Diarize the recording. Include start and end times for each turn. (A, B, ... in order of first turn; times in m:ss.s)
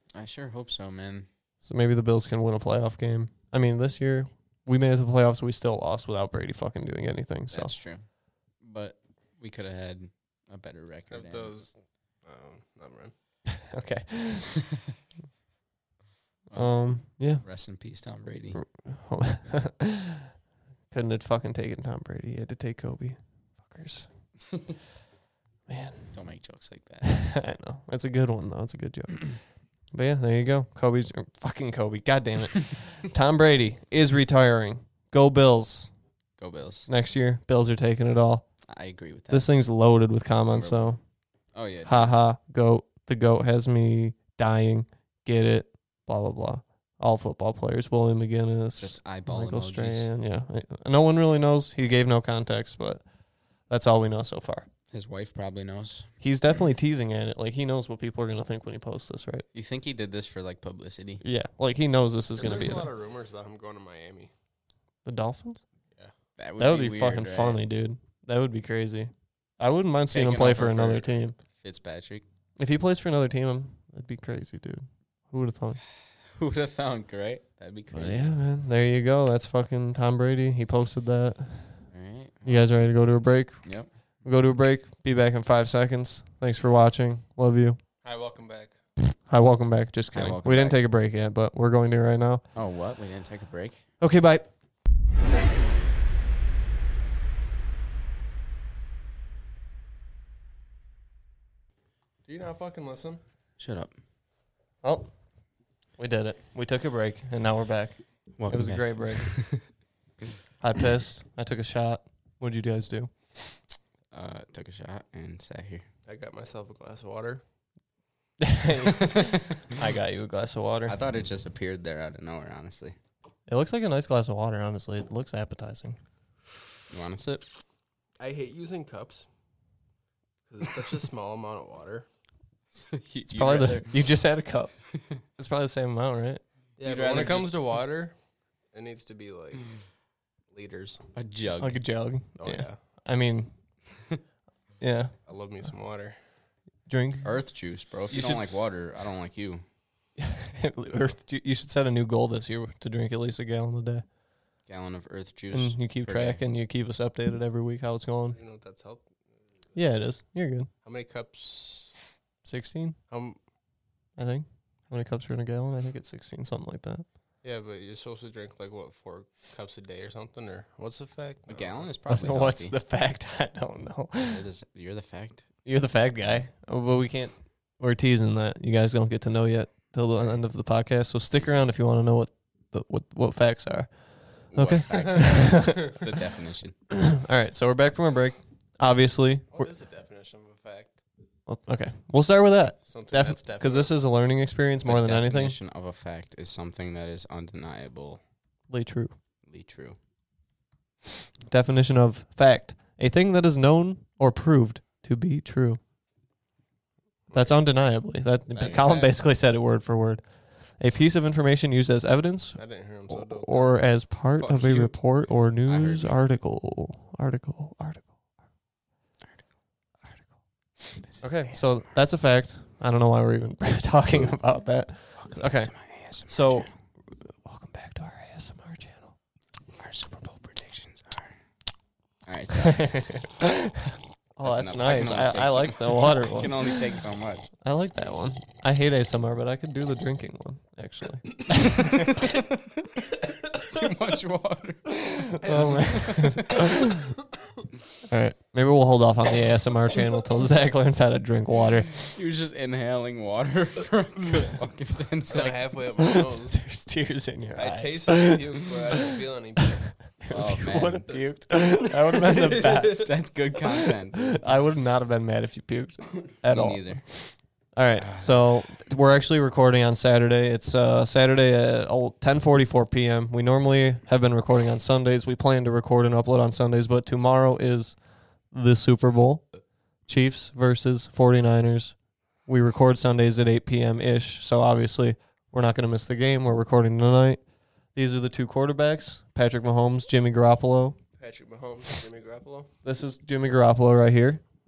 0:00.1-0:01.3 A
0:01.6-0:07.7 B
0:07.5-0:11.7 A
0:11.1-0:13.1 C
0:13.7-0:14.6 B
0:16.5-0:18.6 A
0:16.5-0:17.4 B
0:18.5-0:20.1 B
0:20.9-0:24.1 B
0:25.7-0:26.2 B
0:26.1-0:27.2 A
0:27.0-0:35.9 B
0:36.4-0:36.9 A
0:36.9-0:38.5 B
0:38.7-0:39.5 A
0:39.3-0:41.0 B
0:40.5-0:41.0 A
0:41.5-0:42.2 A
0:41.8-0:54.7 B
0:48.8-0:50.1 A
0:54.9-0:56.1 A
0:56.2-0:59.4 B
0:59.5-1:01.2 A
1:01.2-1:02.9 B
1:02.4-1:04.3 C
1:05.0-1:05.6 B
1:06.4-1:07.6 A
1:06.6-1:11.4 B
1:10.1-1:12.2 A
1:12.6-1:15.8 B
1:16.2-1:18.4 A
1:17.9-1:21.9 B
1:21.9-1:22.8 A
1:22.4-1:27.8 B
1:23.6-1:23.9 A
1:28.0-1:28.8 C
1:29.2-1:32.4 B
1:30.1-1:30.8 A
1:32.5-1:33.9 A
1:34.0-1:34.5 B
1:42.2-1:43.2 C
1:43.6-1:43.9 A
1:44.8-1:49.7 B
1:48.4-1:49.6 A
1:50.6-1:53.6 B
1:54.1-1:55.9 A
1:56.0-1:57.4 C
1:58.4-2:01.0 B
2:00.8-2:03.0 A
2:03.5-2:06.0 B
2:06.9-2:07.5 A
2:08.2-2:09.3 C
2:10.4-2:12.1 C
2:12.7-2:14.1 A
2:13.3-2:16.4 B
2:16.8-2:18.2 C
2:16.8-2:17.7 A
2:18.7-2:19.9 C
2:20.4-2:21.0 C
2:21.1-2:22.0 A
2:21.6-2:23.5 B
2:22.4-2:22.8 C
2:24.8-2:25.2 B
2:25.2-2:26.2 C
2:26.9-2:27.4 B
2:27.2-2:29.6 A
2:28.1-2:28.4 B
2:30.2-2:34.0 B
2:34.6-2:36.4 A
2:35.5-2:38.4 B
2:38.3-2:39.2 C
2:39.7-2:40.7 B
2:40.8-2:42.1 C
2:42.4-2:43.0 B
2:43.1-2:43.4 C
2:44.2-2:47.0 B
2:47.4-2:51.9 C
2:51.5-2:52.8 A
2:52.1-2:54.4 B
2:54.3-2:55.5 A
2:55.6-3:06.0 B
3:04.5-3:06.8 A
3:04.9-3:05.6 C
3:07.1-3:09.7 B
3:09.5-3:11.0 C
3:11.5-3:15.5 B
3:12.8-3:14.0 C
3:14.8-3:18.2 A
3:18.7-3:19.1 B
3:19.4-3:20.0 A
3:21.5-3:25.8 B
3:27.3-3:27.7 C
3:27.3-3:38.1 B
3:28.5-3:29.2 C
3:32.6-3:33.9 C
3:34.4-3:36.2 A
3:41.0-3:41.9 A
3:41.2-3:49.2 B
3:45.2-3:46.8 A
3:49.8-3:51.4 A
3:52.2-3:53.2 A
3:52.6-3:53.7 B
3:54.4-3:56.8 B
3:54.4-3:57.5 A
3:57.6-4:01.9 B
4:03.6-4:06.7 A
4:05.4-4:06.3 C
4:05.4-4:06.9 B
4:08.1-4:12.0 B
4:12.0-4:15.8 A
4:15.3-4:16.6 C
4:16.0-4:18.6 B
4:17.5-4:20.2 C
4:20.0-4:23.1 B
4:20.3-4:21.1 A
4:22.8-4:24.4 A
4:24.4-4:39.6 B
4:26.4-4:27.2 A
4:28.0-4:28.8 A
4:40.1-4:51.0 B
4:51.2-4:52.7 C
4:52.8-4:54.4 B